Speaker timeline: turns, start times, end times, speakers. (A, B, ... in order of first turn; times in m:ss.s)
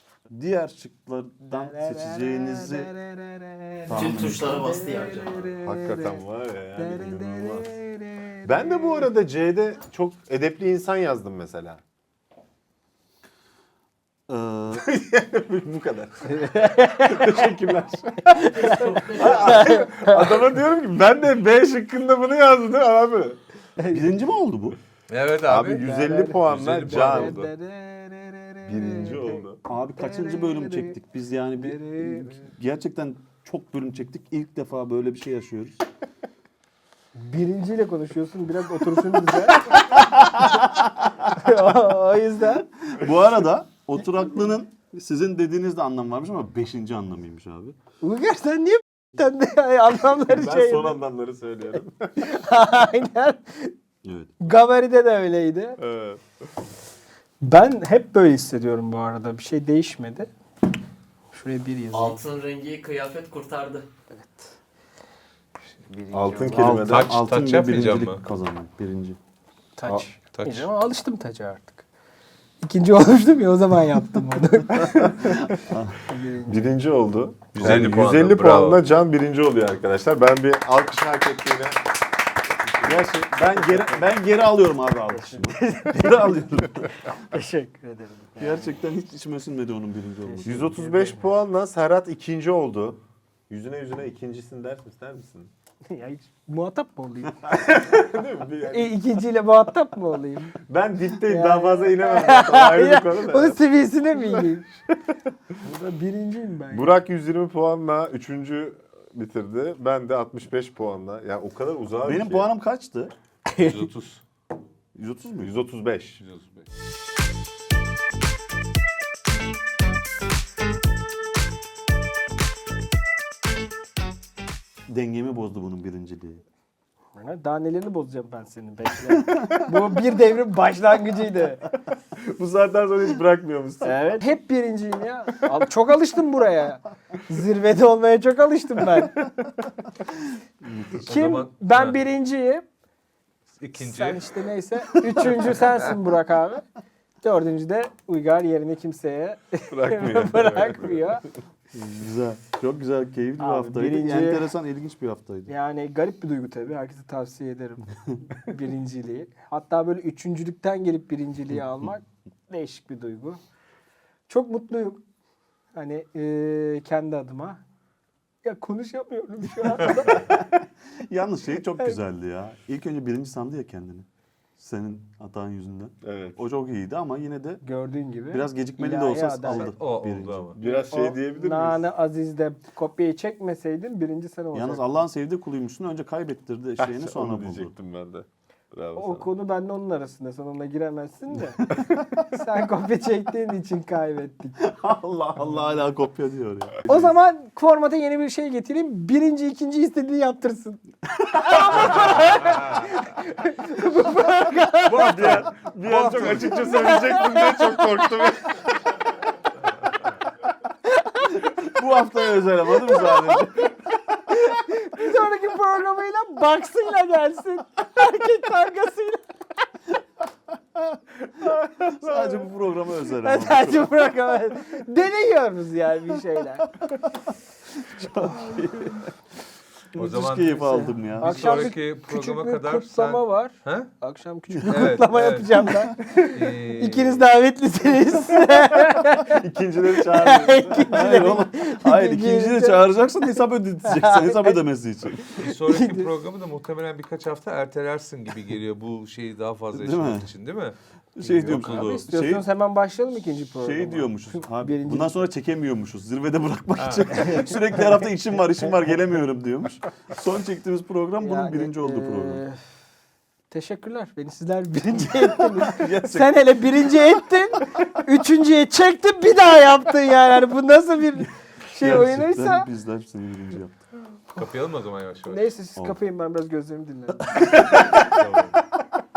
0:00.3-0:02.9 A
0:01.5-0:06.2 B
0:03.9-0:04.6 A
0:03.9-0:05.5 C
0:05.6-0:07.7 D
0:06.8-0:09.1 B
0:08.4-0:11.8 D
0:14.3-0:14.9 A
0:14.7-0:23.4 D
0:16.3-0:17.4 B
0:18.3-0:20.3 B
0:18.7-0:19.4 C
0:23.8-0:24.2 B
0:23.9-0:24.8 A
0:25.1-0:25.8 E
0:25.5-0:27.5 D
0:25.8-0:29.4 B
0:26.5-0:27.4 E
0:28.7-0:29.6 D
0:29.7-0:35.8 A
0:30.0-0:31.0 B
0:31.6-0:32.5 B
0:37.2-0:40.6 B
0:39.9-0:41.6 A
0:41.4-0:42.7 B
0:42.8-0:47.8 A
0:48.0-0:51.0 B
0:50.3-0:52.1 D
0:52.2-0:53.7 B
0:54.0-0:54.4 A
0:54.4-0:55.8 B
0:55.8-0:56.2 D
0:57.4-1:00.3 B
1:01.3-1:02.2 B
1:01.9-1:03.8 C
1:04.1-1:04.5 B
1:06.0-1:06.7 B
1:06.1-1:07.2 D
1:06.5-1:09.2 A
1:06.8-1:08.2 E
1:09.8-1:11.8 B
1:10.4-1:10.7 E
1:12.6-1:15.4 B
1:14.8-1:15.5 D
1:15.5-1:16.0 A
1:16.1-1:16.7 B
1:16.5-1:21.8 D
1:17.6-1:18.8 E
1:17.6-1:18.0 A
1:22.6-1:23.1 D
1:22.8-1:26.9 A
1:25.1-1:28.7 B
1:28.4-1:30.8 A
1:30.2-1:31.3 B
1:30.4-1:35.5 D
1:35.9-1:38.1 B
1:37.6-1:39.0 D
1:38.7-1:40.6 B
1:40.7-1:43.6 D
1:41.3-1:44.7 B
1:44.1-1:44.5 D
1:45.6-1:46.9 B
1:46.7-1:52.5 D
1:52.0-1:53.2 A
1:53.5-1:53.9 B
1:53.6-1:54.2 E
1:55.0-1:55.5 A
1:55.4-1:56.2 D
1:56.2-1:56.7 E
2:04.9-2:06.4 A
2:07.2-2:11.7 B
2:12.2-2:14.2 D
2:13.8-2:19.2 B
2:20.6-2:21.1 A
2:21.0-2:22.0 E
2:21.1-2:22.7 B
2:23.6-2:24.2 E
2:23.8-2:26.6 B
2:27.2-2:31.2 B
2:29.7-2:31.1 D
2:31.7-2:35.5 A
2:33.4-2:34.5 B
2:35.5-2:43.4 B
2:44.3-2:45.0 B
2:45.8-2:47.6 B
2:48.4-2:50.3 B
2:50.1-2:54.1 A
2:54.6-2:57.6 A
2:56.0-2:56.4 D
2:57.6-2:59.8 B
2:58.3-3:00.6 A
2:59.5-3:00.6 E
3:00.6-3:01.9 D
3:00.6-3:05.0 B
3:04.5-3:07.7 A
3:06.8-3:09.3 D
3:09.0-3:14.6 B
3:14.6-3:17.1 A
3:16.8-3:25.3 B
3:21.3-3:21.8 A
3:22.0-3:22.9 E
3:24.9-3:26.5 E
3:24.9-3:28.6 D
3:26.1-3:26.5 A
3:26.6-3:28.3 B
3:31.0-3:31.4 B
3:31.3-3:33.9 A
3:32.9-3:33.6 B
3:34.3-3:39.2 B
3:41.8-3:44.0 A
3:41.8-3:42.3 D
3:43.2-3:46.7 B
3:47.8-3:49.1 A
3:49.9-3:51.7 A
3:50.0-3:53.9 E
3:50.6-3:59.4 B
3:54.5-3:55.0 A
3:54.7-3:55.5 E
3:55.6-3:56.0 A
3:56.3-3:57.2 E
3:59.3-4:01.0 D
4:00.0-4:02.9 B
4:00.9-4:05.4 A
4:03.8-4:04.6 B
4:05.4-4:12.0 E
4:05.7-4:06.1 B
4:09.7-4:10.3 A
4:11.2-4:12.4 A
4:11.6-4:15.2 B
4:13.6-4:22.4 A
4:16.8-4:17.1 E
4:17.1-4:17.9 B
4:21.2-4:22.6 B
4:23.5-4:32.7 B
4:25.1-4:26.4 A
4:31.8-4:33.8 A
4:34.4-4:35.5 E
4:35.3-4:37.6 B
4:37.3-4:38.2 A
4:37.8-4:38.6 E